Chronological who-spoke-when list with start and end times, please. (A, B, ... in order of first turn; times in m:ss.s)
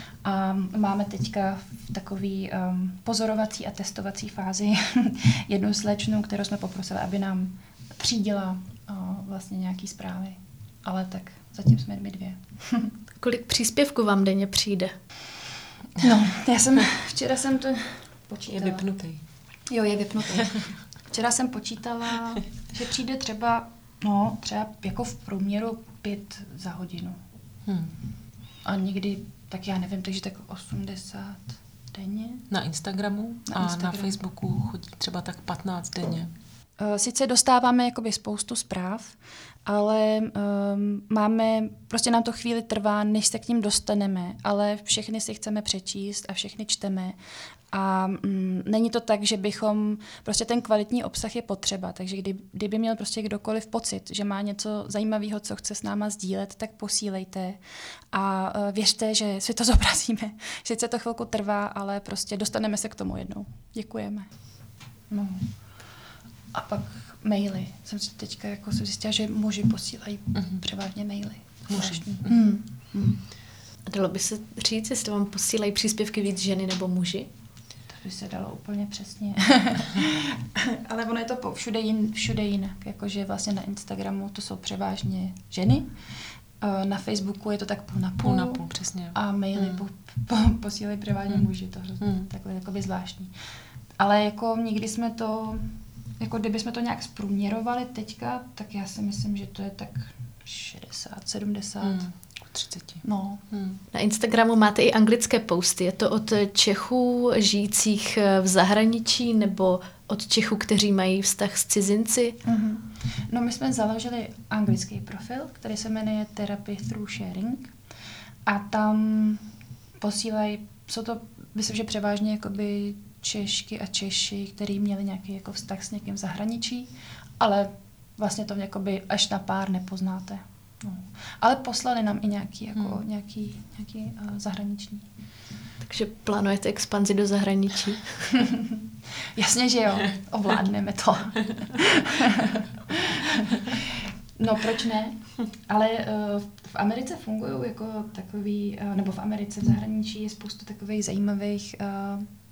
0:00.2-0:12.9 A
0:13.2-0:15.0 B
0:16.0-0:18.9 A
0:18.5-0:19.2 C
0:19.7-0:27.2 A
0:27.6-0:28.0 C
0:28.6-0:32.5 A
0:32.5-0:36.3 C
0:33.5-0:34.2 A
0:36.8-0:47.2 A
0:47.7-0:57.6 A
0:58.1-1:04.4 A
1:05.1-1:05.8 A
1:06.5-1:13.2 A
1:10.3-1:10.6 C
1:11.7-1:12.3 C
1:13.8-1:17.3 B
1:17.9-1:26.0 A
1:26.6-1:33.3 A
1:28.2-1:29.8 C
1:32.0-1:32.3 C
1:34.0-1:42.2 A
1:41.8-1:43.8 C
1:43.0-1:43.4 A
1:43.9-1:52.4 B
1:52.4-1:57.7 A
1:58.4-1:59.5 A
2:00.0-2:15.1 A
2:15.8-2:18.4 B
2:18.5-2:18.8 A
2:19.3-2:32.3 A